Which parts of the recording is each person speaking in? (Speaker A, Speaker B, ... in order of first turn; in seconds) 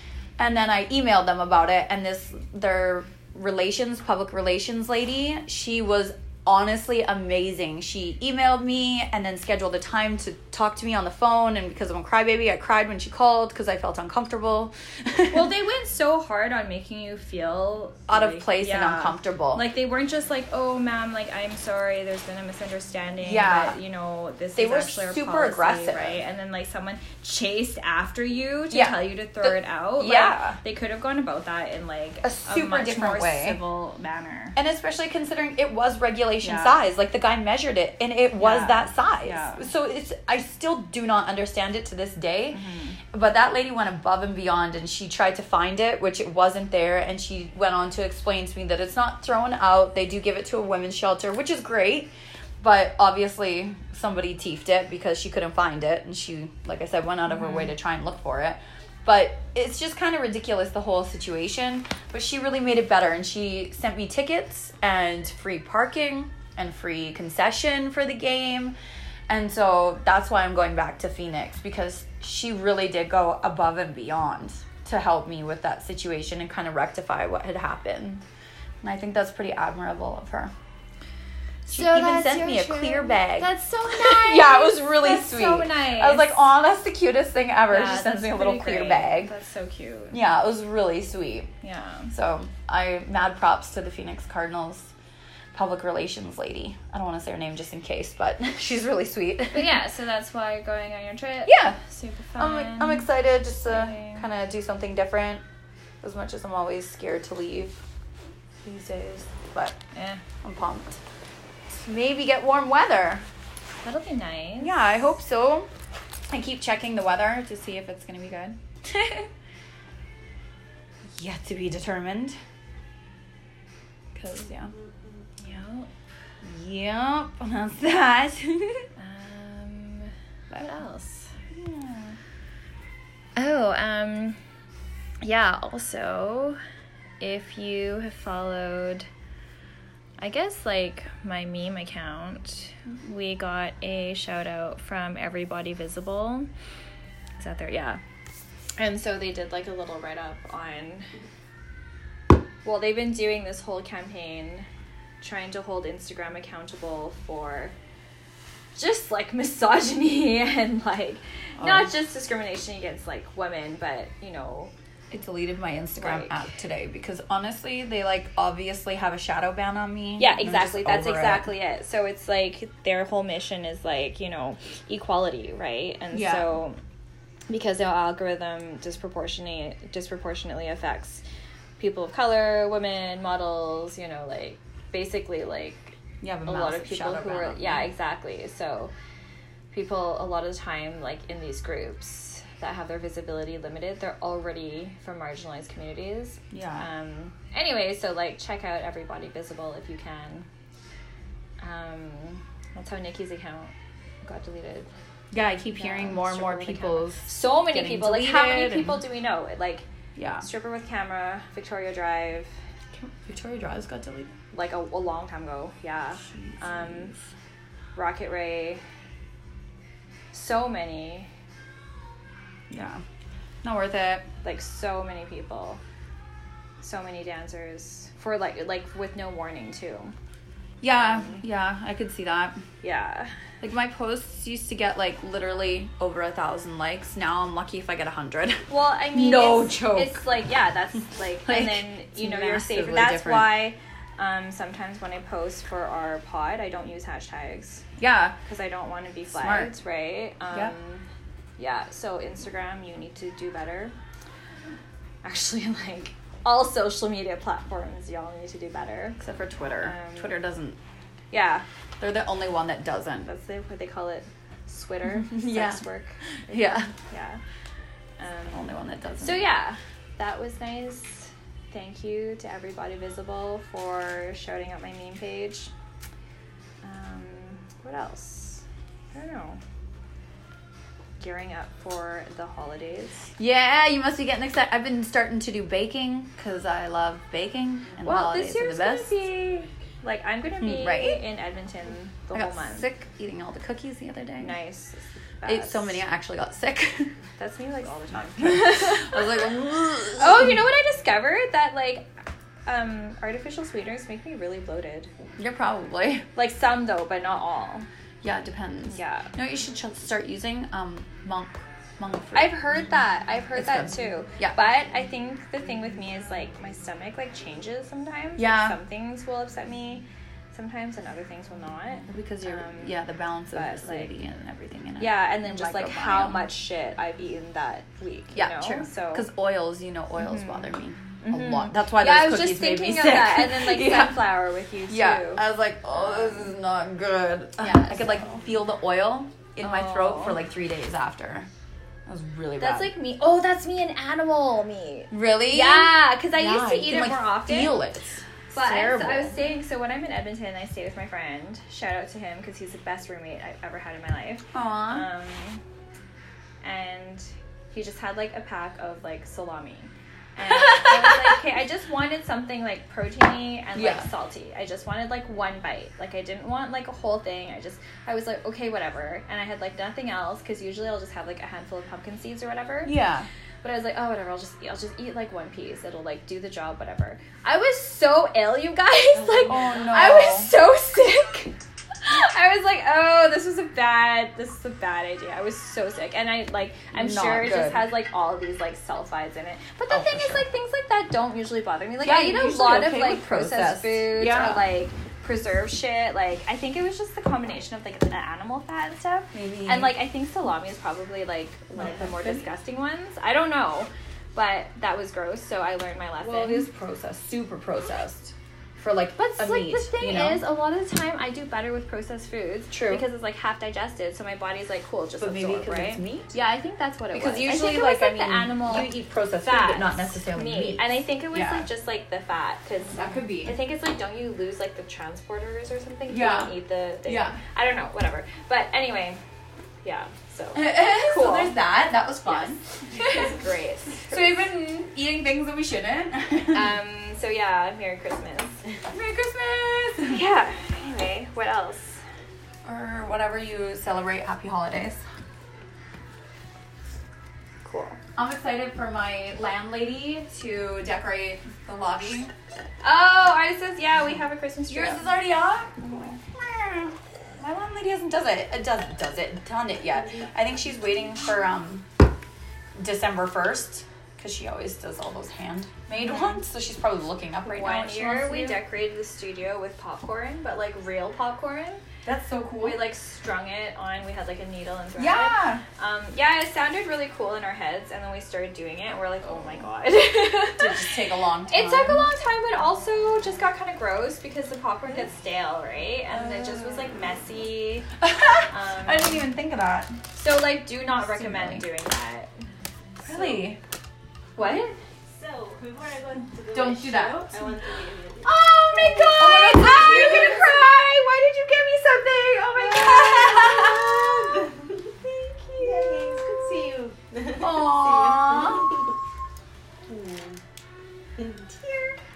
Speaker A: 0.4-15.5, 18.1-19.6, 23.2-23.8, 24.5-26.2, 28.7-30.6, 32.2-33.6, 34.5-42.6, 43.1-68.7, 69.3-78.2, 78.8-80.5, 81.7-89.3, 90.1-91.5, 92.1-94.9, 95.5-99.8, 101.5-101.8, 102.4-105.4, 106.0-107.8, 108.6-109.8, 110.4-111.0, 111.7-113.2, 114.6-115.7, 116.3-118.6, 121.2-122.4, 124.1-124.7, 126.4-128.8, 161.6-161.9, 165.1-171.5, 176.1-176.5, 186.2-187.9, 196.5-196.8, 205.3-209.0, 210.2-210.4, 212.9-214.3, 216.2-217.2, 222.7-223.0, 223.6-224.2, 230.8-232.6, 233.6-240.2, 241.4-243.7, 248.0-248.3, 249.3-249.7, 259.2-260.8, 262.0-263.3, 265.2-265.8, 266.5-266.9, 268.5-269.5, 283.4-289.2, 290.6-291.2, 292.3-294.6, 295.4-297.1, 298.4-300.6, 305.4-306.2, 308.2-312.6, 313.5-314.6, 318.4-318.8, 322.1-326.5, 328.3-334.3, 334.9-341.5, 342.1-342.9, 345.1-349.4, 354.5-355.1, 363.7-364.1, 372.8-373.3, 379.4-380.5, 386.9-387.9, 389.9-390.5, 392.0-394.6, 399.3-400.0, 401.8-402.5, 406.2-410.4, 412.7-413.1, 415.2-416.3, 417.1-421.6, 422.9-423.5, 426.1-427.4, 430.5-433.3, 434.0-436.8, 438.9-440.2, 442.6-445.0, 448.1-452.3, 454.7-461.9, 462.8-468.6, 472.0-472.8, 475.0-475.6, 480.6-482.1, 486.1-486.9, 488.0-489.9, 491.0-491.7, 493.0-493.6, 496.5-497.3, 499.2-504.4, 507.3-508.8
Speaker B: 15.3-34.5, 36.4-36.8, 38.4-39.7, 42.5-43.0, 57.3-57.7, 81.7-86.4, 87.7-90.2, 91.6-92.1, 99.5-104.3, 109.9-110.2, 113.8-114.7, 125.4-125.9, 129.0-132.1, 133.3-134.4, 135.2-136.6, 137.2-139.1, 140.2-146.5, 147.4-148.0, 148.8-151.0, 152.6-154.7, 155.2-157.7, 158.8-164.7, 165.9-166.4, 170.2-176.8, 177.5-181.2, 181.8-188.9, 189.7-200.5, 201.6-203.7, 204.2-204.9, 205.8-209.8, 210.4-212.5, 214.5-217.1, 217.9-218.8, 220.3-221.3, 224.4-225.8, 226.8-230.1, 230.9-231.4, 232.8-233.3, 238.7-247.8, 248.4-251.0, 251.6-253.9, 255.2-259.2, 259.8-260.4, 261.3-261.6, 263.2-267.4, 268.2-268.7, 269.2-275.7, 276.8-279.6, 281.2-283.3, 288.0-292.9, 294.4-296.0, 297.4-299.4, 300.2-302.1, 302.6-305.1, 306.4-307.9, 308.9-309.3, 312.3-322.9, 323.5-324.1, 325.0-329.3, 330.2-336.5, 337.6-338.3, 339.6-340.4, 342.6-347.8, 348.5-355.6, 356.6-372.9, 373.6-406.7, 409.2-429.2, 429.8-431.6, 432.2-434.4, 436.5-438.6, 440.0-442.0, 447.6-448.0, 452.8-455.1, 455.8-456.1, 466.0-466.4, 467.5-471.8, 472.6-480.8, 481.5-487.9, 488.5-489.3, 490.1-492.4, 493.0-493.5, 494.4-494.8, 498.2-500.8, 501.6-503.1, 505.0-506.1
Speaker C: 495.1-500.4, 502.6-504.9, 505.6-508.9, 511.2-511.7